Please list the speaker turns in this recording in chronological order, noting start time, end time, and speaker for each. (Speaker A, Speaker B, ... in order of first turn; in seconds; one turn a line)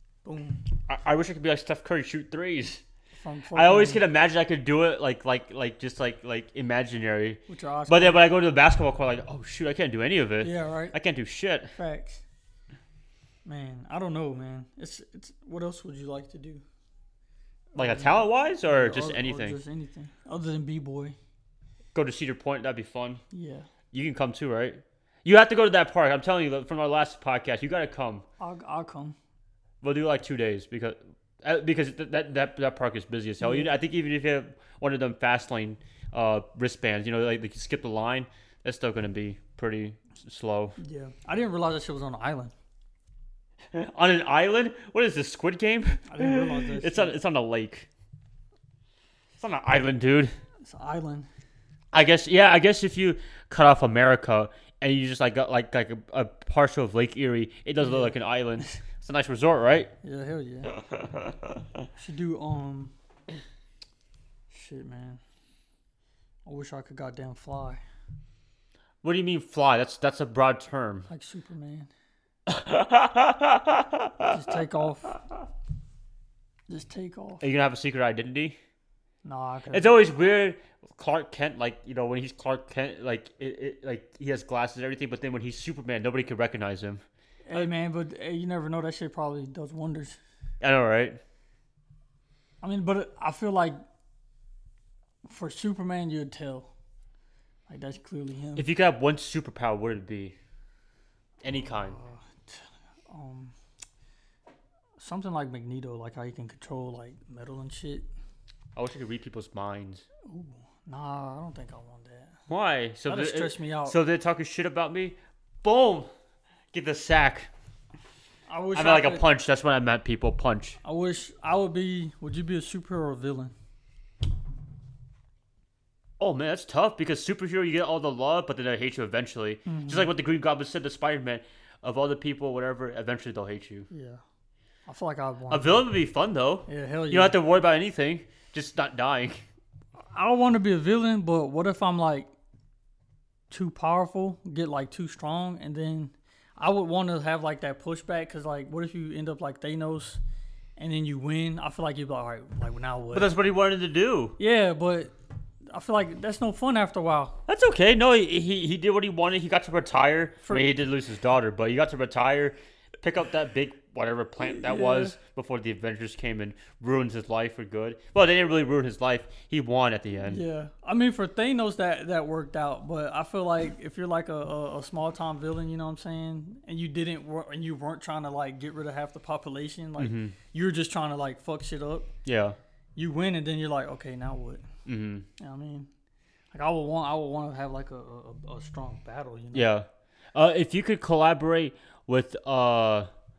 Speaker A: 0.2-0.6
Speaker B: 0.9-2.8
Speaker A: 3.1-4.0
Speaker B: 3.5-11.7
Speaker A: 7.5-8.3
Speaker A: 10.4-10.9
Speaker A: 11.7-12.2
Speaker A: 13.4-16.6
Speaker A: 17.7-21.1
Speaker B: 17.8-19.6
Speaker B: 21.9-23.2
Speaker A: 23.3-23.7
Speaker B: 23.9-28.2
Speaker A: 28.4-29.1
Speaker B: 29.8-40.8
Speaker A: 33.4-33.7
Speaker A: 40.8-42.5
Speaker B: 43.7-47.9
Speaker A: 46.1-47.2
Speaker B: 49.4-50.3
Speaker A: 50.6-51.3
Speaker B: 51.9-59.9
Speaker A: 57.8-58.8
Speaker A: 60.0-60.7
Speaker B: 60.7-61.6
Speaker A: 62.0-62.9
Speaker A: 64.5-65.2
Speaker A: 66.4-67.8
Speaker B: 69.0-71.1
Speaker A: 71.1-71.9
Speaker B: 72.5-74.3
Speaker A: 74.3-75.2
Speaker A: 76.7-77.4
Speaker B: 77.4-78.6
Speaker A: 79.2-80.0
Speaker B: 79.7-87.0
Speaker A: 87.5-90.2
Speaker B: 90.6-91.2
Speaker A: 92.6-93.8
Speaker A: 95.2-96.7
Speaker A: 97.7-98.7
Speaker B: 98.5-100.3
Speaker B: 101.4-102.0
Speaker A: 101.5-103.5
Speaker A: 105.0-108.1
Speaker B: 108.8-110.0
Speaker A: 110.2-112.4
Speaker B: 112.5-116.1
Speaker A: 113.0-114.0
Speaker B: 116.7-117.5
Speaker A: 118.5-119.3
Speaker B: 118.7-120.8
Speaker A: 120.8-123.5
Speaker B: 126.2-133.9
Speaker A: 129.7-130.1
Speaker A: 133.9-134.2
Speaker A: 134.9-135.9
Speaker B: 135.5-139.4
Speaker A: 136.7-137.4
Speaker A: 140.1-142.3
Speaker A: 143.5-150.2
Speaker A: 150.8-153.3
Speaker B: 153.1-154.4
Speaker A: 154.4-155.1
Speaker A: 155.7-157.4
Speaker B: 157.5-170.4
Speaker A: 164.4-165.1
Speaker A: 170.2-182.1
Speaker B: 180.0-180.3
Speaker B: 182.2-182.6
Speaker A: 182.9-184.6
Speaker B: 184.8-185.3
Speaker A: 185.4-185.9
Speaker A: 186.5-189.7
Speaker B: 189.5-193.1